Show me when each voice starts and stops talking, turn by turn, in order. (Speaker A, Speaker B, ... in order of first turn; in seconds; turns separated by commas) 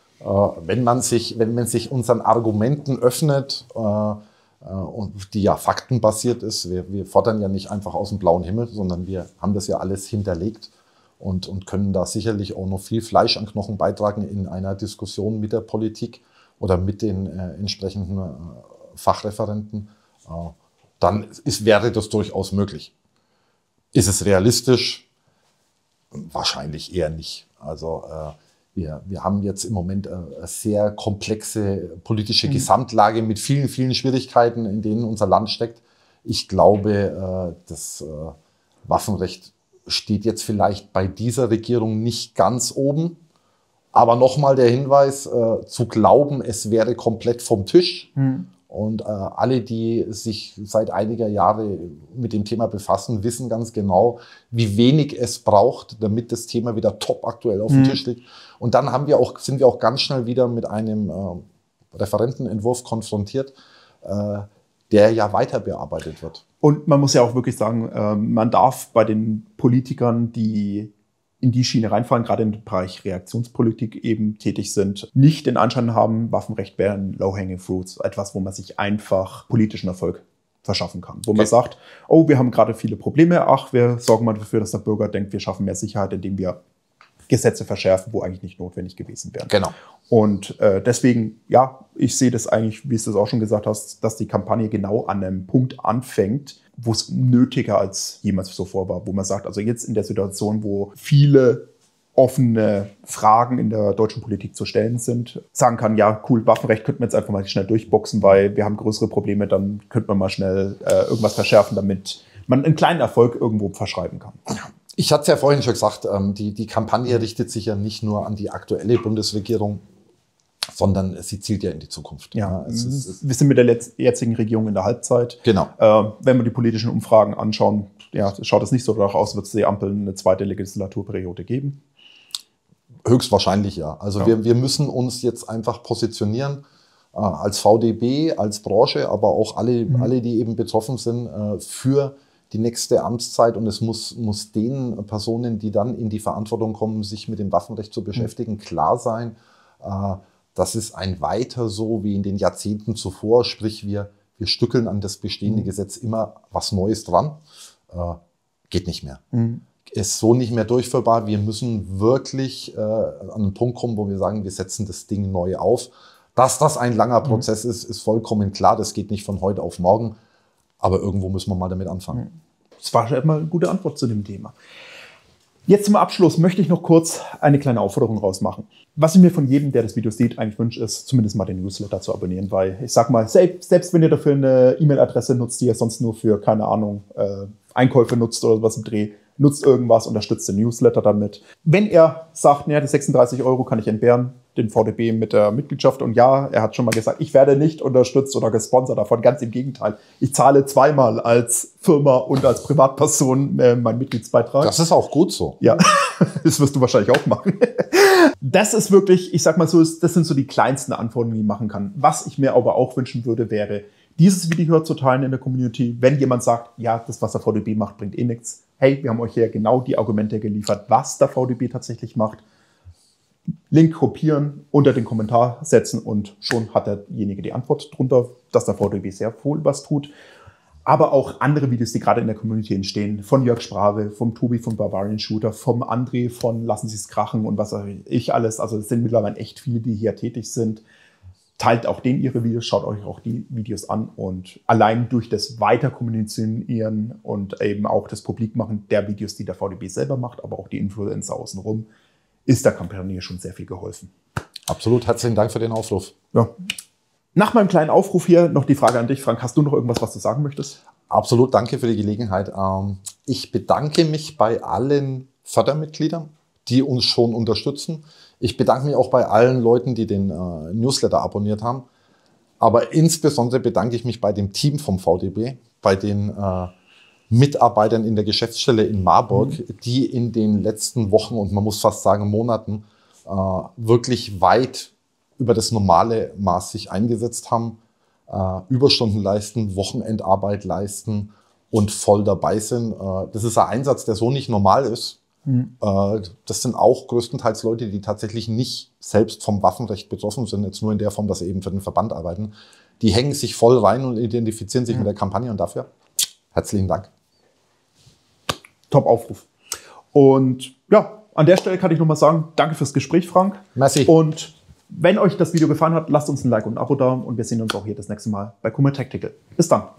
Speaker A: 0.2-22.9, Speaker A: 23.9-25.1, Speaker A: 26.1-43.2, Speaker A: 43.9-48.1, Speaker B: 48.2-48.5, Speaker A: 48.7-66.4, Speaker B: 57.7-58.0, Speaker B: 66.6-86.6, Speaker B: 87.3-89.5, Speaker A: 89.5-89.7, Speaker B: 90.1-114.4, Speaker A: 114.5-119.8, Speaker A: 120.7-123.2, Speaker B: 122.3-131.8, Speaker A: 125.4-125.7, Speaker A: 133.1-136.6, Speaker A: 137.1-158.2, Speaker A: 158.7-159.2, Speaker B: 159.3-159.6, Speaker A: 159.9-170.2, Speaker A: 170.8-172.2, Speaker B: 172.8-174.5, Speaker B: 175.7-204.8, Speaker A: 204.6-205.6, Speaker B: 205.6-222.4, Speaker B: 223.7-230.1, Speaker B: 230.9-240.8, Speaker B: 241.6-251.9, Speaker B: 252.5-254.1, Speaker A: 254.7-256.1, Speaker B: 257.4-260.8, Speaker A: 261.1-271.9, Speaker A: 272.6-276.7, Speaker A: 277.3-295.2, Speaker A: 295.8-305.9, Speaker A: 306.5-307.1, Speaker B: 308.9-309.5, Speaker B: 310.1-319.9, Speaker A: 313.8-314.1